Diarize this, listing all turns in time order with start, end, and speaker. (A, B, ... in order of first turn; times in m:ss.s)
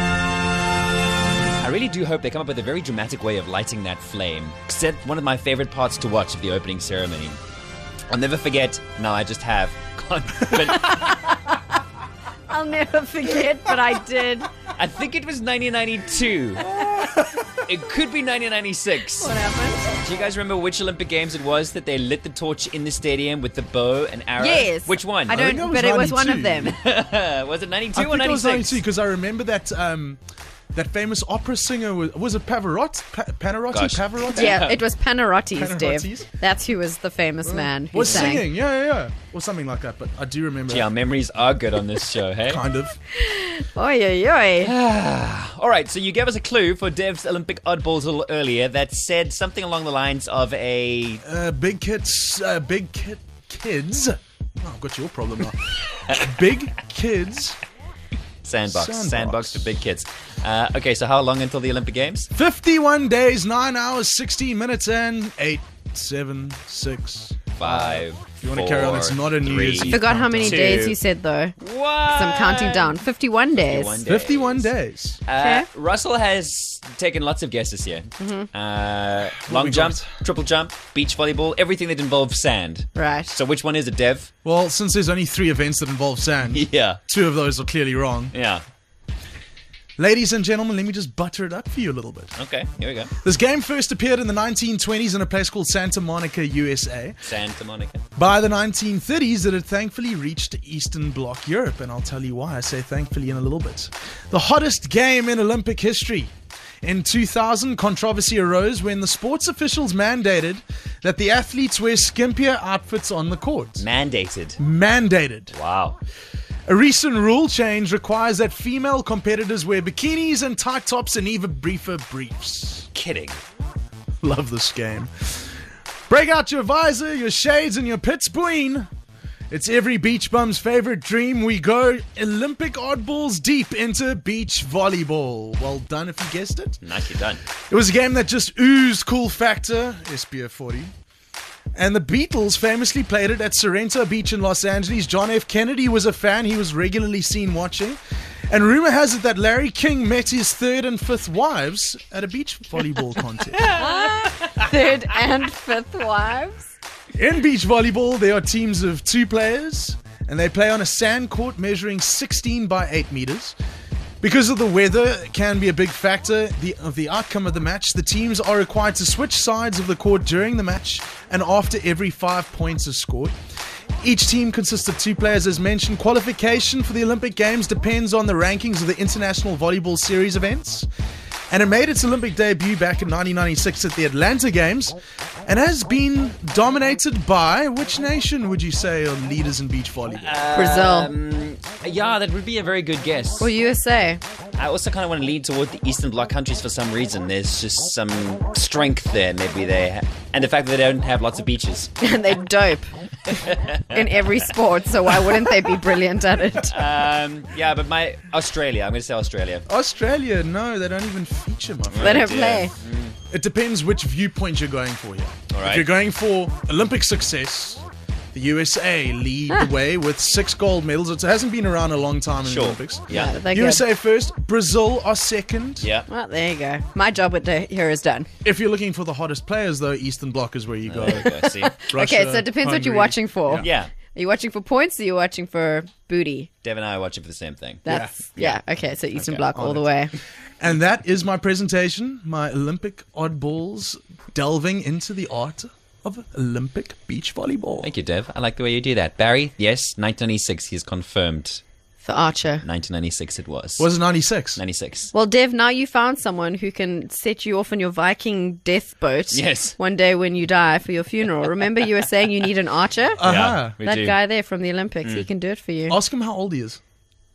0:01.6-0:07.4 A
0:08.1-0:11.2 A
0:10.8-0:11.5 B
0:12.5-0:14.5 B
0:14.8-0:19.3 A
0:16.7-0:17.4 C
0:19.2-0:20.0 B
0:19.9-0:25.4 A
0:24.4-0:26.8 B
0:25.3-0:26.8 C
0:26.6-0:28.8 A
0:27.9-0:30.2 C
0:30.7-0:34.7 C
0:33.7-0:34.8 A
0:34.3-0:38.4 B
0:35.6-0:36.3 C
0:37.5-0:40.9 C
0:37.5-0:38.4 A
0:40.7-0:42.6 A
0:42.5-0:43.0 C
0:43.1-0:44.7 B
0:44.6-0:51.2 A
0:51.2-0:57.6 C
0:56.0-0:56.5 A
0:58.4-1:02.3 A
0:58.7-0:59.7 C
1:02.4-1:10.9 C
1:07.6-1:11.0 A
1:09.9-1:11.6 B
1:11.6-1:13.0 A
1:12.1-1:14.0 B
1:13.6-1:14.7 A
1:14.0-1:15.2 C
1:15.3-1:24.3 A
1:15.4-1:15.7 B
1:18.2-1:18.5 B
1:19.4-1:20.1 C
1:23.0-1:23.4 B
1:24.4-1:28.3 C
1:26.5-1:27.0 A
1:28.3-1:28.6 A
1:30.0-1:32.3 C
1:32.4-1:33.1 A
1:33.2-1:37.2 C
1:37.2-1:38.0 A
1:38.2-1:53.8 C
1:53.8-1:54.6 A
1:54.6-1:55.5 C
1:55.5-1:56.0 A
1:56.7-2:02.9 C
2:02.9-2:03.4 A
2:04.2-2:05.5 C
2:06.1-2:08.9 C
2:09.5-2:16.8 C
2:16.8-2:17.4 A
2:17.7-2:20.9 C
2:21.8-2:28.0 C
2:28.5-2:33.8 C
2:33.5-2:34.7 A
2:33.6-2:36.7 B
2:37.1-2:43.6 C
2:44.2-2:53.4 C
2:54.0-3:00.9 C
3:01.5-3:10.4 C
3:10.2-3:13.5 A
3:10.5-3:11.1 B
3:13.4-3:14.2 B
3:14.6-3:21.9 A
3:22.0-3:22.9 B
3:23.3-3:24.3 A
3:23.9-3:26.7 B
3:25.1-3:25.6 A
3:26.6-3:29.7 A
3:29.7-3:32.6 C
3:31.9-3:33.2 A
3:32.0-3:32.7 B
3:33.3-3:45.9 C
3:35.5-3:35.9 A
3:42.4-3:43.4 A
3:43.1-3:43.8 B
3:45.8-3:46.1 A
3:46.1-3:48.3 B
3:48.4-3:53.7 C
3:50.9-3:51.8 A
3:51.8-3:56.5 B
3:53.6-3:53.9 A
3:56.6-3:58.6 A
3:57.8-4:00.1 B
3:57.9-3:58.1 C
3:59.2-3:59.5 A
3:59.5-3:59.9 C
4:00.6-4:07.9 C
4:07.8-4:11.6 A
4:12.0-4:12.6 B
4:12.6-4:13.9 A
4:13.8-4:14.6 C
4:14.6-4:15.1 A
4:15.1-4:23.2 B
4:19.3-4:19.8 A
4:23.2-4:23.8 C
4:23.2-4:24.2 A
4:23.8-4:26.0 B
4:25.9-4:26.8 C